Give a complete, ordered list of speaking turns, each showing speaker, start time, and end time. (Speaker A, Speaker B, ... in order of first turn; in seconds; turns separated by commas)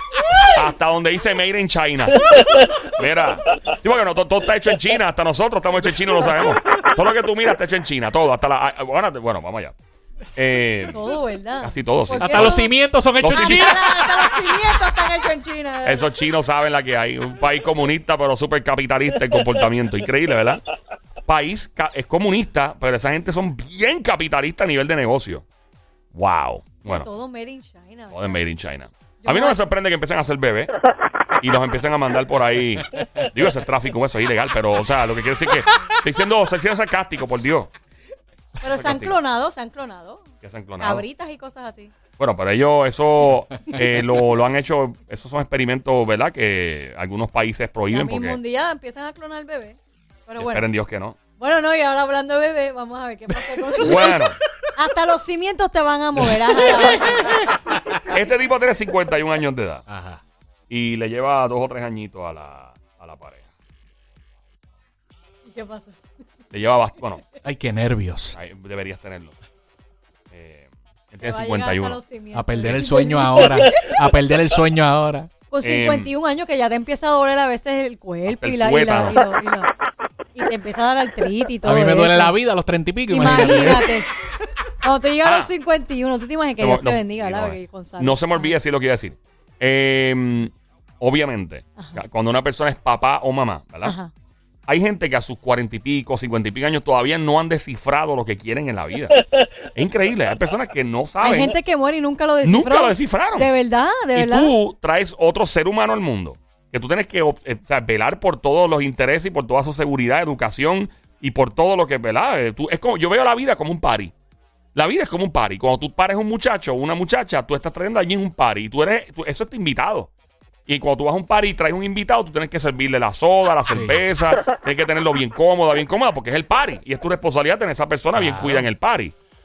Speaker A: 0.5-9.7, Speaker A: 10.3-11.0, Speaker B: 10.9-12.7, Speaker A: 11.6-12.6, Speaker C: 12.2-14.3, Speaker A: 13.2-13.7, Speaker B: 13.2-16.1, Speaker A: 15.8-20.6, Speaker A: 21.2-25.4, Speaker A: 26.1-27.1, Speaker B: 26.8-28.4, Speaker A: 28.1-30.7, Speaker B: 29.2-29.7, Speaker A: 31.4-37.7, Speaker B: 38.6-40.2, Speaker A: 38.6-39.1, Speaker A: 40.4-41.0, Speaker B: 40.8-41.9, Speaker A: 42.2-48.4, Speaker B: 47.9-50.7, Speaker A: 50.4-51.2, Speaker B: 51.4-54.1, Speaker A: 53.8-54.4, Speaker B: 54.8-57.5, Speaker C: 57.1-58.1, Speaker A: 58.1-59.8, Speaker C: 59.9-60.2, Speaker A: 60.7-63.5, Speaker B: 65.4-66.0, Speaker A: 66.5-67.2, Speaker C: 67.4-68.4, Speaker A: 68.3-69.3, Speaker A: 70.3-72.0, Speaker B: 71.2-73.7, Speaker C: 72.3-75.3, Speaker A: 72.6-72.9, Speaker B: 75.5-79.7, Speaker A: 75.6-76.1, Speaker A: 78.3-79.2, Speaker B: 80.3-82.4, Speaker C: 81.6-83.9, Speaker B: 83.1-84.1, Speaker B: 84.8-88.5, Speaker A: 85.2-85.5, Speaker A: 86.6-93.9, Speaker B: 93.8-94.1, Speaker A: 94.7-101.5, Speaker B: 101.2-104.5, Speaker A: 102.4-103.5, Speaker A: 104.1-114.1, Speaker A: 114.7-120.1, Speaker A: 120.7-129.1, Speaker C: 123.7-124.0, Speaker C: 128.1-128.7